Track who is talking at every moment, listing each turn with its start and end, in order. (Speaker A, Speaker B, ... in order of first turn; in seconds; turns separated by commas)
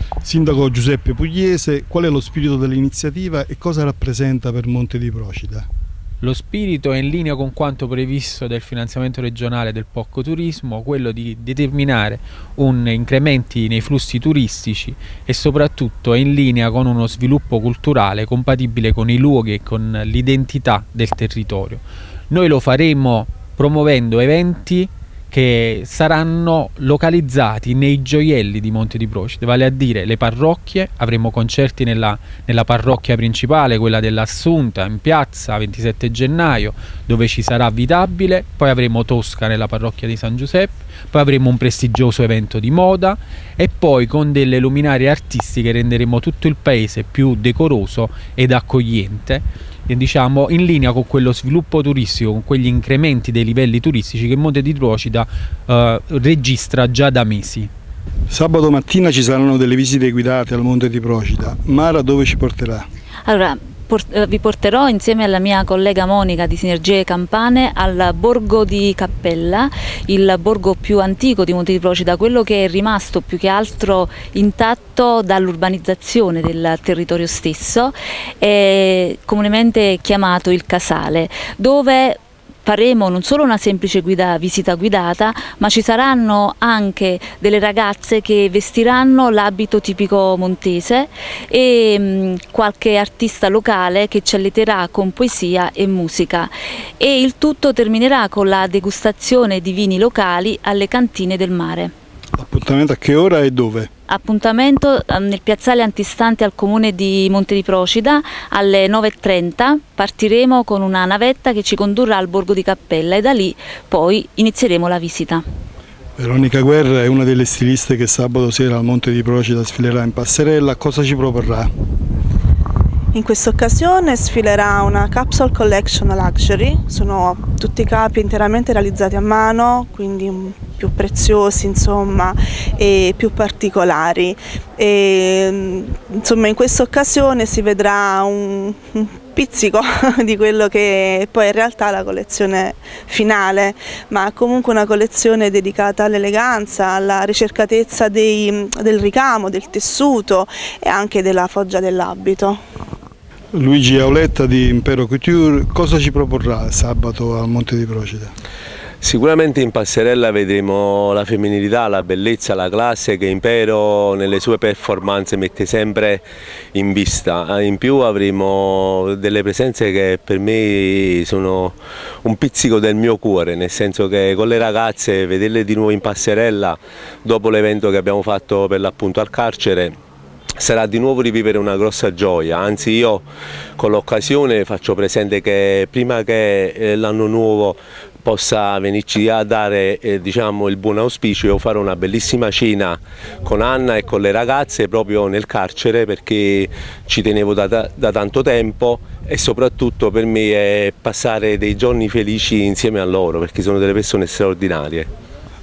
Speaker A: 0.2-5.7, Speaker B: 6.2-57.7, Speaker A: 58.3-62.9, Speaker C: 63.2-101.9, Speaker A: 102.4-103.9, Speaker C: 104.1-115.4, Speaker A: 116.2-121.7, Speaker D: 123.1-152.6, Speaker A: 153.5-158.3, Speaker E: 159.0-179.9, Speaker E: 180.6-183.2, Speaker E: 183.8-205.1